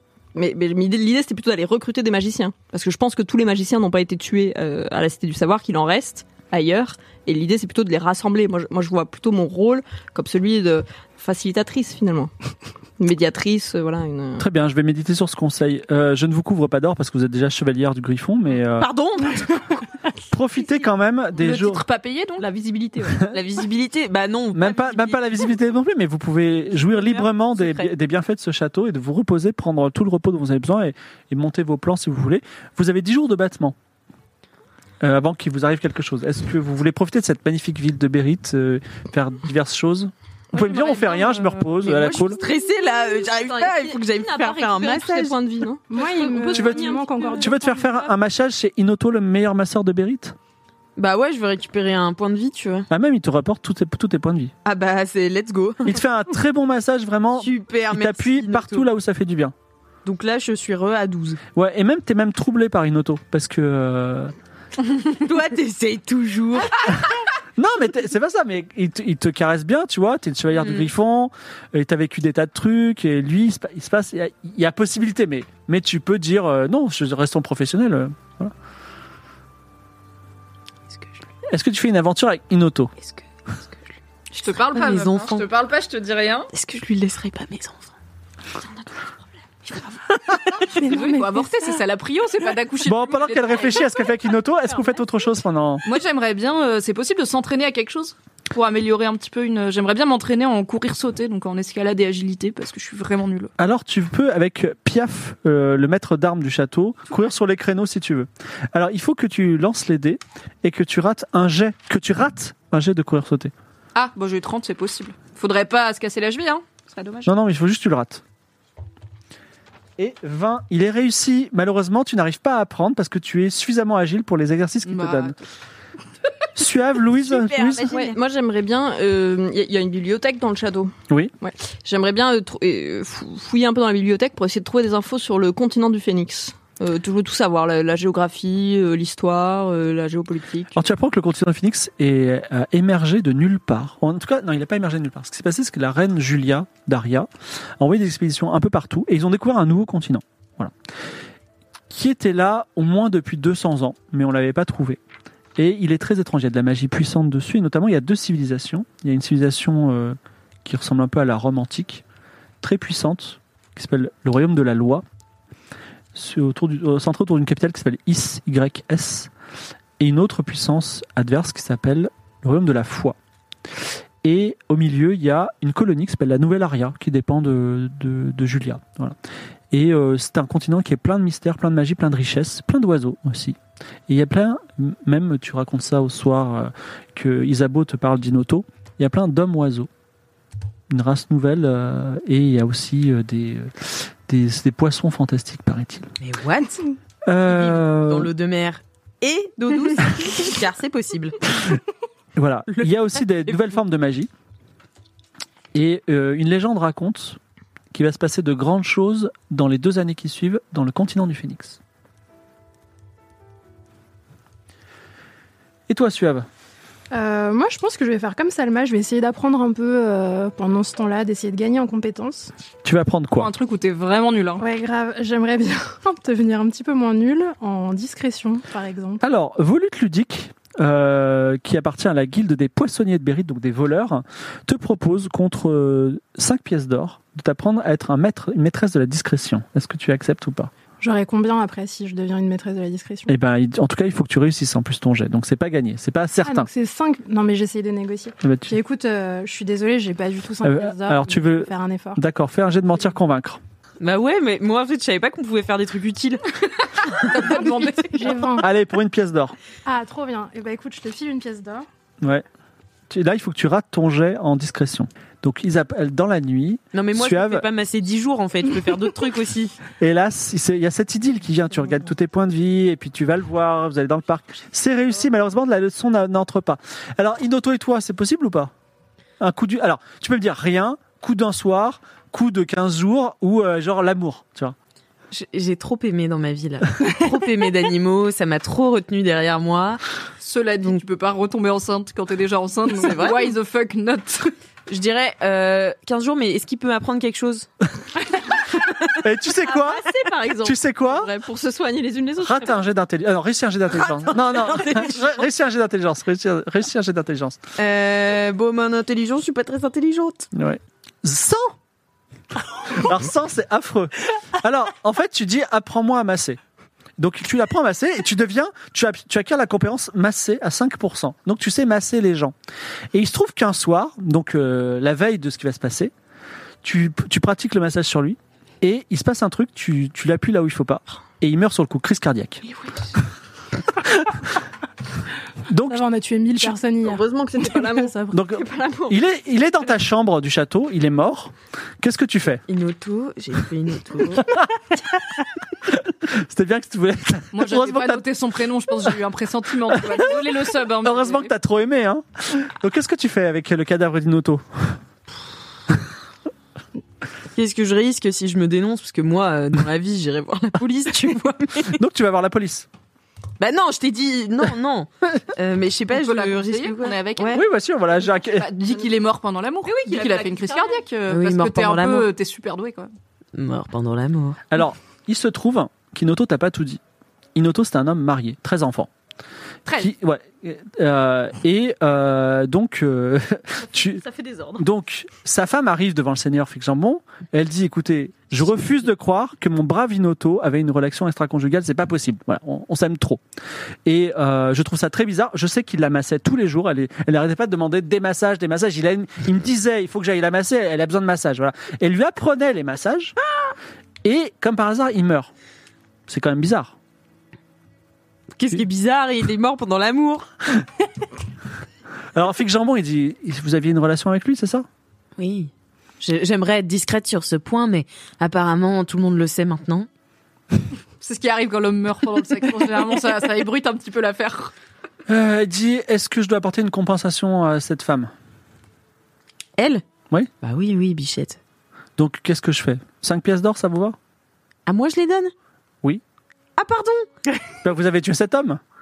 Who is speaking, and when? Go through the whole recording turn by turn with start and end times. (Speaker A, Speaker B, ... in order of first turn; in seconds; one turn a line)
Speaker A: 0.3-12.3
Speaker A: 13.0-14.5
Speaker B: 14.4-18.9
Speaker C: 18.8-19.8
Speaker B: 20.3-21.8
Speaker D: 21.3-23.2
Speaker C: 23.3-25.5
Speaker B: 24.5-33.8
Speaker C: 26.8-27.9
Speaker B: 35.0-42.4
Speaker D: 40.6-41.6
Speaker C: 41.8-45.4
Speaker A: 43.3-46.9
Speaker E: 45.9-47.6
Speaker C: 46.0-47.5
Speaker B: 46.5-50.4
Speaker C: 51.0-52.9
Speaker B: 52.9-54.5
Speaker C: 54.6-56.0
Speaker B: 55.8-59.5
Speaker C: 57.4-58.9
Speaker C: 60.0-61.4
Speaker B: 61.5-64.3
Speaker C: 64.8-67.0
Speaker B: 67.6-78.5
Speaker C: 70.5-70.9
Speaker C: 80.9-81.2
Speaker B: 81.5-82.9
Speaker C: 83.0-83.9
Speaker D: 84.3-86.5
Speaker C: 84.7-85.5
Speaker C: 86.5-87.9
Speaker C: 89.7-89.9
Speaker E: 90.7-91.8
Speaker D: 90.8-94.1
Speaker B: 92.8-95.8
Speaker D: 95.8-103.5
Speaker B: 103.6-113.5
Speaker D: 113.9-117.3
Speaker B: 117.2-118.2
Speaker B: 120.0-125.3
Speaker D: 124.8-125.3
Speaker B: 126.5-127.9
Speaker C: 127.2-128.2
Speaker A: 127.9-140.8
Speaker B: 140.7-150.7
Speaker B: 151.9-155.0
Speaker B: 155.6-162.0
Speaker B: 162.6-165.0
Speaker B: 166.1-169.3
Speaker B: 170.0-173.2
Speaker B: 174.2-179.2
Speaker B: 179.7-183.6
Speaker B: 184.1-189.9
Speaker B: 190.9-196.1
Speaker C: 196.2-196.9
Speaker B: 197.2-198.3
Speaker C: 197.4-201.6
Speaker B: 202.3-204.3
Speaker C: 202.7-203.7
Speaker B: 205.7-207.4
Speaker B: 207.9-211.8
Speaker B: 215.9-216.5
Speaker E: 217.1-222.5
Speaker B: 222.8-223.5
Speaker D: 223.4-224.6
Speaker E: 224.6-229.2
Speaker B: 229.2-240.7
Speaker E: 241.0-243.3
Speaker B: 243.3-246.7
Speaker E: 246.4-252.2
Speaker B: 248.4-248.8
Speaker B: 250.6-253.6
Speaker C: 254.0-258.0
Speaker D: 257.1-258.4
Speaker E: 258.1-258.7
Speaker B: 258.6-259.5
Speaker E: 259.9-261.9
Speaker B: 263.1-267.6
Speaker C: 266.9-269.8
Speaker B: 270.0-278.7
Speaker B: 279.4-284.8
Speaker C: 285.3-290.0
Speaker D: 290.4-294.5
Speaker C: 292.9-293.6
Speaker C: 294.9-297.7
Speaker B: 299.2-300.0
Speaker A: 299.6-302.9
Speaker B: 300.6-301.3
Speaker B: 302.4-307.6
Speaker C: 304.1-305.2
Speaker C: 307.8-310.5
Speaker B: 310.5-311.7
Speaker B: 312.9-316.6
Speaker B: 317.2-322.5
Speaker B: 323.1-326.1
Speaker B: 326.8-332.6
Speaker B: 335.7-336.0
Speaker E: 335.9-338.4
Speaker A: 337.0-339.2
Speaker B: 338.3-342.6
Speaker C: 342.7-344.5
Speaker B: 345.9-348.2
Speaker D: 347.5-351.5
Speaker B: 349.9-350.3
Speaker B: 351.0-355.0
Speaker C: 357.6-362.0
Speaker B: 361.9-362.9
Speaker C: 363.6-367.6
Speaker D: 366.1-367.6
Speaker B: 367.5-368.7
Speaker D: 368.4-373.1
Speaker A: 369.8-371.0
Speaker C: 371.3-372.3
Speaker C: 373.5-374.6
Speaker B: 374.7-377.0
Speaker B: 377.5-379.1
Speaker B: 379.9-384.2
Speaker A: 383.8-384.8
Speaker B: 384.8-393.4
Speaker B: 394.1-403.3
Speaker B: 404.2-405.5
Speaker B: 406.3-406.9
Speaker C: 408.6-410.5
Speaker B: 412.3-414.9
Speaker C: 415.4-420.1
Speaker D: 421.2-424.7
Speaker B: 425.3-428.3
Speaker C: 429.8-430.0
Speaker C: 430.6-431.6
Speaker B: 432.2-434.2
Speaker C: 434.9-435.5
Speaker C: 436.8-437.3
Speaker B: 437.8-438.8